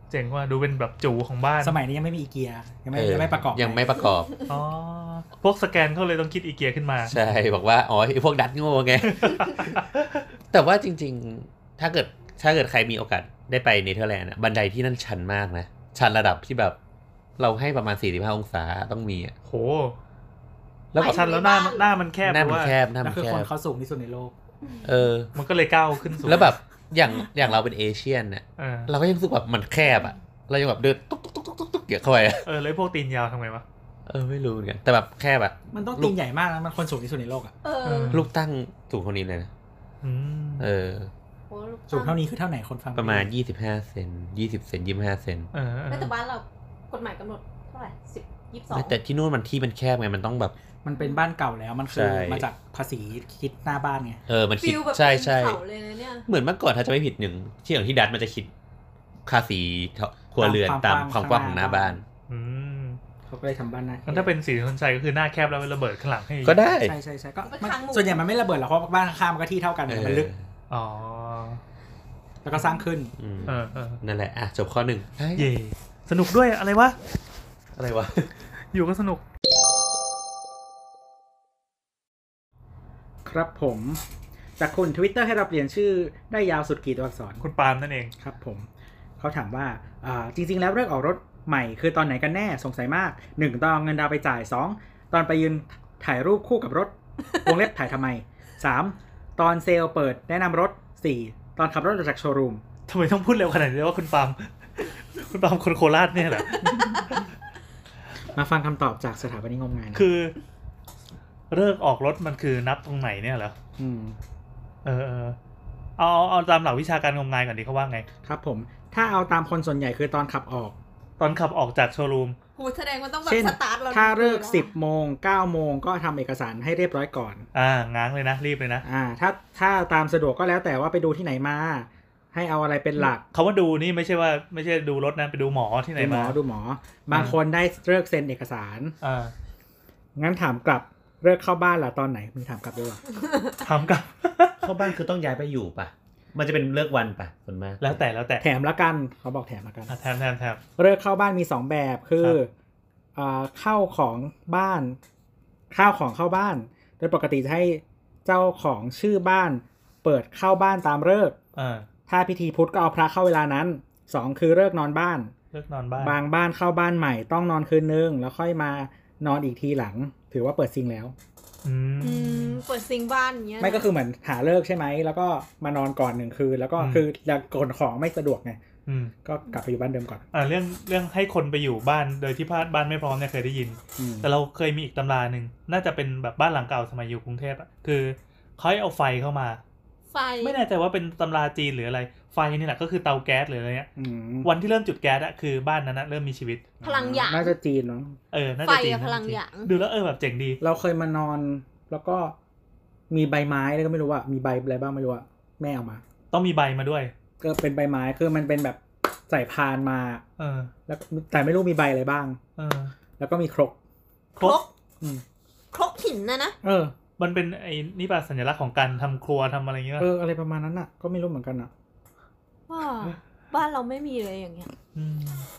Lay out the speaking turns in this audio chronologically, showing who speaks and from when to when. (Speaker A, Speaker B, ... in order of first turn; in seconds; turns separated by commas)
Speaker A: 0.1-1.8, Speaker B: 1.6-3.9, Speaker C: 2.9-4.3, Speaker A: 4.5-7.1, Speaker C: 7.1-9.8, Speaker A: 9.1-10.2, Speaker C: 10.5-16.8, Speaker C: 17.4-19.4, Speaker A: 19.4-20.0, Speaker C: 20.9-21.2, Speaker A: 20.9-22.8, Speaker D: 21.0-21.9, Speaker C: 22.2-23.5, Speaker B: 23.0-24.3, Speaker C: 24.8-25.3, Speaker A: 25.4-26.5, Speaker C: 26.2-32.5, Speaker A: 28.6-28.9, Speaker A: 32.4-33.6, Speaker C: 34.1-36.1, Speaker B: 35.7-37.5, Speaker D: 37.6-38.2, Speaker A: 37.8-38.3, Speaker C: 38.1-39.5, Speaker A: 40.0-40.6, Speaker C: 40.6-41.1, Speaker D: 41.5-42.2, Speaker B: 41.9-43.3, Speaker C: 43.0-45.5, Speaker A: 45.5-46.1, Speaker D: 45.9-49.0, Speaker C: 48.7-50.5, Speaker B: 50.8-54.2, Speaker C: 51.9-52.5, Speaker C: 54.3-55.6, Speaker D: 54.6-56.2, Speaker C: 56.3-58.5, Speaker C: 59.2-62.0, Speaker B: 60.4-62.0, Speaker A: 62.3-63.0, Speaker B: 63.3-64.3, Speaker A: 64.1-66.6, Speaker C: 66.4-67.0, Speaker B: 66.8-70.3, Speaker D: 67.4-68.2, Speaker C: 69.9-70.4, Speaker A: 70.7-71.6, Speaker B: 72.4-73.1, Speaker C: 73.2-75.5, Speaker A: 73.5-74.0, Speaker A: 75.4-77.0, Speaker C: 77.8-78.3, Speaker A: 78.7-79.2, Speaker B: 83.2-84.0, Speaker B: 84.6-87.4, Speaker A: 87.4-88.1, Speaker B: 88.2-88.7, Speaker B: 89.2-102.6, Speaker A: 102.9-107.3, Speaker B: 108.3-110.1, Speaker A: 109.9-110.4, Speaker A: 111.5-113.6, Speaker B: 113.8-114.2, Speaker A: 114.8-115.4, Speaker A: 116.0-118.1, Speaker B: 118.2-120.8, Speaker A: 121.2-122.4, Speaker D: 122.6-124.7, Speaker B: 123.2-127.5, Speaker A: 127.5-128.8, Speaker B: 128.8-133.2, Speaker A: 133.0-136.4, Speaker B: 136.0-138.9, Speaker A: 137.1-137.4, Speaker A: 139.0-139.3, Speaker B: 140.2-143.0, Speaker A: 143.6-144.8, Speaker C: 144.6-148.0, Speaker A: 147.8-148.4, Speaker B: 148.4-149.9, Speaker A: 149.9-150.6, Speaker B: 150.8-152.5, Speaker B: 153.2-155.0, Speaker B: 155.7-161.4, Speaker A: 161.6-161.9, Speaker B: 162.1-165.3, Speaker A: 165.5-166.2, Speaker B: 166.0-171.1, Speaker A: 171.6-172.6, Speaker D: 172.0-173.9, Speaker B: 173.6-178.6, Speaker A: 176.8-177.0, Speaker A: 178.9-179.1, Speaker B: 179.2-180.2, Speaker A: 180.3-189.6, Speaker B: 184.0-184.3, Speaker D: 190.1-190.6, Speaker A: 190.4-193.9, Speaker B: 194.0-194.5, Speaker A: 194.4-196.7, Speaker B: 196.8-198.2, Speaker D: 196.8-197.5, Speaker A: 198.3-200.6, Speaker D: 198.6-199.7, Speaker B: 200.6-202.4, Speaker B: 203.1-206.0, Speaker A: 206.3-207.1, Speaker B: 207.4-210.2, Speaker A: 210.4-210.7, Speaker B: 210.9-212.4, Speaker A: 212.6-212.9, Speaker B: 213.2-213.8, Speaker A: 214.4-214.6, Speaker D: 214.4-214.7, Speaker D: 215.7-216.6, Speaker B: 216.6-216.9, Speaker A: 217.2-220.1, Speaker B: 220.0-221.7, Speaker D: 222.7-224.7, Speaker A: 224.9-225.5